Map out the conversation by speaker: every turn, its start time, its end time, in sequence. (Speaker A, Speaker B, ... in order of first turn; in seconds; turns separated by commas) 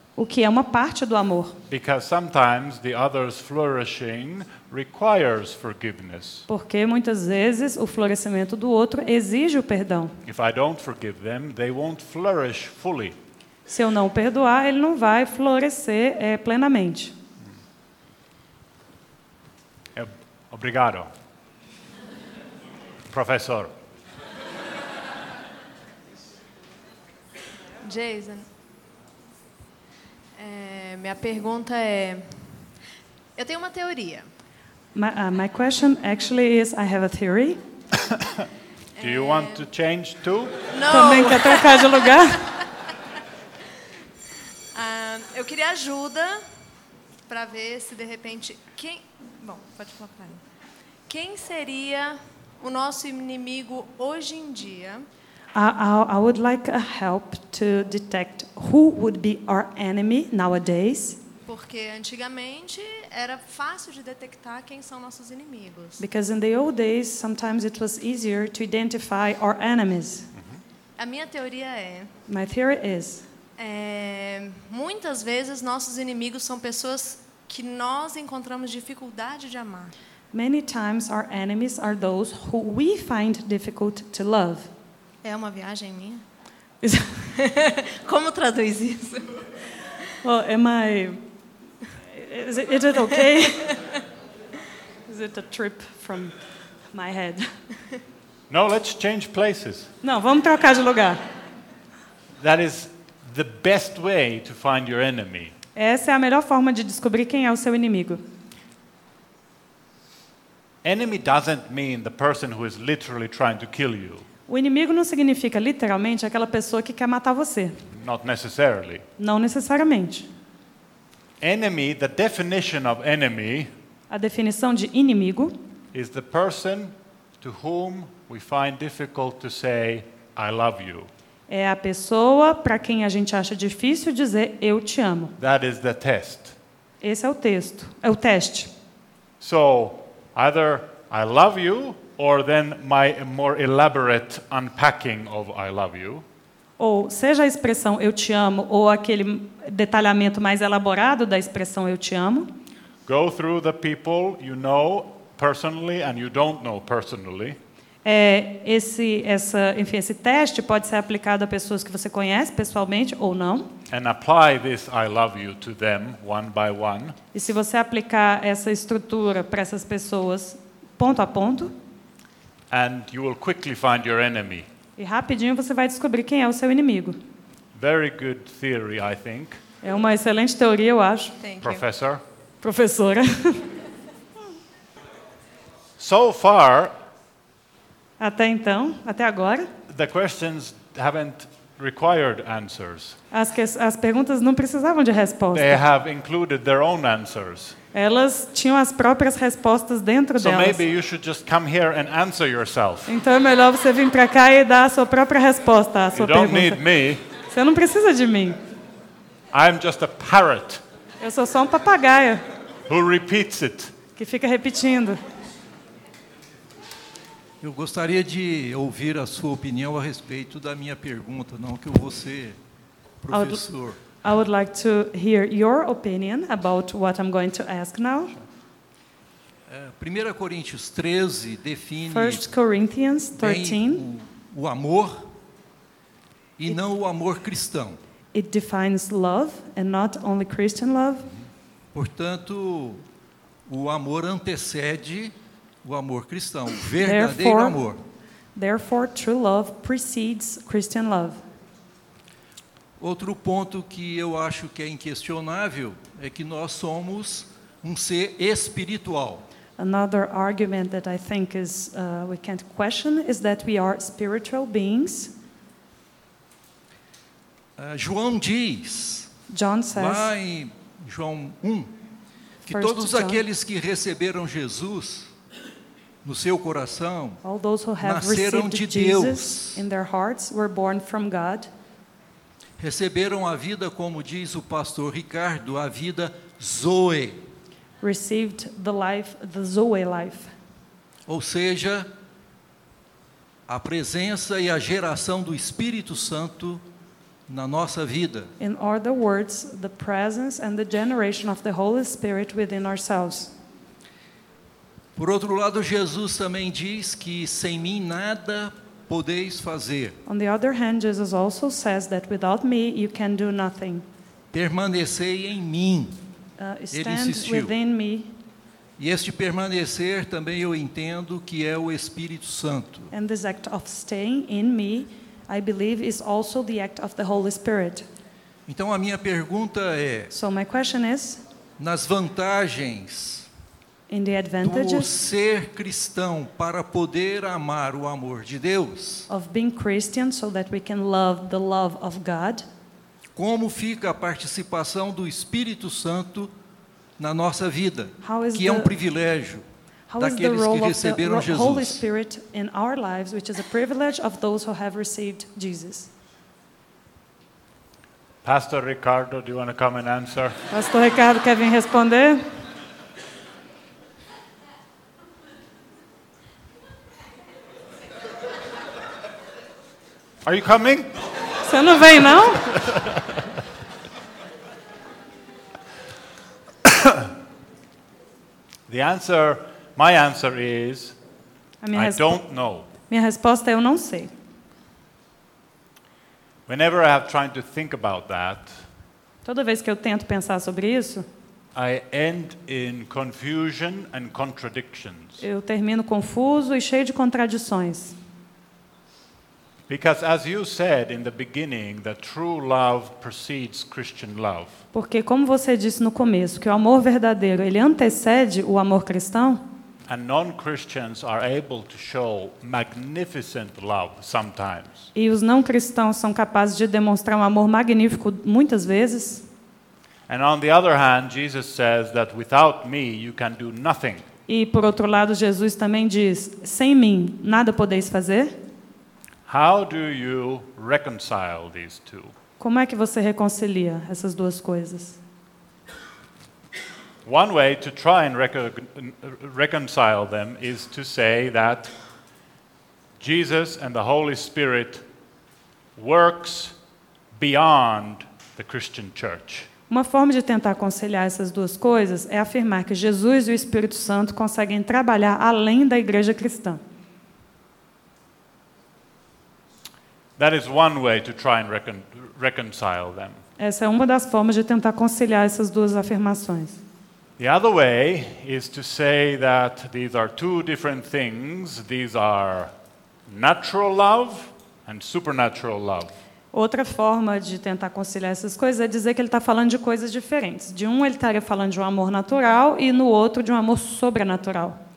Speaker A: 0.2-1.6, Speaker B: 1.7-6.5, Speaker A: 6.5-10.1, Speaker B: 10.2-13.2, Speaker A: 13.7-17.1, Speaker B: 19.9-21.1, Speaker B: 23.1-23.7, Speaker C: 27.8-28.4, Speaker C: 30.4-32.2, Speaker C: 33.4-34.2, Speaker A: 34.9-37.6, Speaker C: 39.0-39.6, Speaker B: 39.0-40.7, Speaker C: 40.7-41.6, Speaker A: 40.9-42.5, Speaker C: 44.7-46.3, Speaker C: 47.3-50.4, Speaker C: 51.1-55.0, Speaker A: 55.5-61.2, Speaker C: 61.5-66.0, Speaker A: 66.0-70.3, Speaker C: 71.0-72.1, Speaker A: 72.3-73.2, Speaker C: 73.6-79.9, Speaker A: 80.3-84.7, Speaker C: 85.2-86.2, Speaker A: 86.8-87.2, Speaker C: 87.4-89.3, Speaker A: 90.2-91.2, Speaker A: 92.1-93.8, Speaker A: 95.1-96.4, Speaker A: 96.9-97.5, Speaker B: 98.5-99.9, Speaker A: 100.0-101.2, Speaker B: 102.4-105.5, Speaker A: 105.8-108.2, Speaker B: 110.8-114.2, Speaker A: 114.5-117.8, Speaker B: 117.9-119.0, Speaker A: 119.2-120.3, Speaker B: 121.4-123.7, Speaker A: 124.1-125.5, Speaker B: 125.9-131.1, Speaker A: 131.5-135.3, Speaker B: 135.4-136.5, Speaker A: 137.0-138.7, Speaker B: 139.4-146.2, Speaker A: 146.8-152.5, Speaker B: 153.1-157.6, Speaker A: 158.0-163.7, Speaker B: 163.9-167.2, Speaker A: 167.3-171.7, Speaker B: 172.7-174.7, Speaker A: 175.0-177.2, Speaker B: 177.7-179.6, Speaker A: 179.8-181.4, Speaker C: 181.4-181.8, Speaker B: 181.6-182.2, Speaker A: 182.6-183.7, Speaker B: 186.0-186.9, Speaker A: 188.2-189.7, Speaker B: 189.9-193.2, Speaker A: 193.3-195.8, Speaker B: 195.5-197.8, Speaker A: 197.9-200.8, Speaker B: 200.4-203.1, Speaker A: 203.1-206.8, Speaker B: 206.2-207.2, Speaker A: 207.5-208.6, Speaker B: 209.5-210.8, Speaker A: 211.2-212.4, Speaker B: 212.9-213.9, Speaker A: 214.2-215.2, Speaker D: 217.6-222.6, Speaker D: 223.2-224.0, Speaker A: 223.3-223.6, Speaker A: 224.2-228.3, Speaker D: 229.7-232.4, Speaker A: 232.1-234.0, Speaker D: 233.4-235.3, Speaker D: 236.6-238.0, Speaker A: 238.3-241.3, Speaker D: 241.9-243.0, Speaker D: 243.7-248.0, Speaker A: 247.0-247.8, Speaker A: 248.5-251.4, Speaker D: 253.0-259.4, Speaker A: 259.8-265.3, Speaker D: 267.8-269.3, Speaker A: 269.5-270.3, Speaker D: 269.9-271.9, Speaker D: 272.6-275.3, Speaker A: 272.7-273.4, Speaker D: 276.2-277.4, Speaker A: 277.4-281.7, Speaker D: 278.0-279.8, Speaker D: 282.8-287.4, Speaker A: 288.0-290.5, Speaker D: 291.3-292.1, Speaker D: 293.7-296.8, Speaker D: 297.5-298.5, Speaker A: 298.6-303.5, Speaker D: 305.1-310.2, Speaker A: 310.2-314.1, Speaker D: 314.5-316.2, Speaker A: 316.6-318.3, Speaker D: 316.9-317.7, Speaker D: 319.0-323.1, Speaker A: 323.1-328.0, Speaker D: 328.7-330.3, Speaker A: 330.3-331.4, Speaker D: 331.8-333.5, Speaker A: 334.1-335.1, Speaker D: 334.6-339.2, Speaker A: 339.3-342.6, Speaker D: 343.3-346.5, Speaker D: 347.2-349.6, Speaker A: 348.2-348.9, Speaker A: 350.1-356.1, Speaker D: 350.2-352.0, Speaker B: 358.4-360.6, Speaker A: 360.7-362.4, Speaker B: 370.4-371.1, Speaker A: 371.6-372.6, Speaker B: 372.7-373.2, Speaker B: 376.9-377.2, Speaker B: 378.9-381.1, Speaker A: 381.8-382.4, Speaker B: 381.9-382.9, Speaker A: 383.1-384.3, Speaker B: 386.7-388.7, Speaker A: 389.4-391.2, Speaker B: 391.7-395.4, Speaker A: 395.4-398.1, Speaker B: 399.9-404.8, Speaker A: 404.9-409.6, Speaker B: 410.1-415.1, Speaker A: 415.1-419.4, Speaker B: 420.3-424.2, Speaker A: 424.5-428.6, Speaker B: 429.5-432.3, Speaker A: 432.6-435.2, Speaker B: 437.2-441.9, Speaker B: 443.2-445.0, Speaker B: 445.9-446.7, Speaker B: 447.4-449.7, Speaker A: 449.9-456.8, Speaker B: 460.4-463.4, Speaker A: 463.6-466.8, Speaker B: 467.4-472.7, Speaker B: 473.3-476.1, Speaker A: 476.5-484.8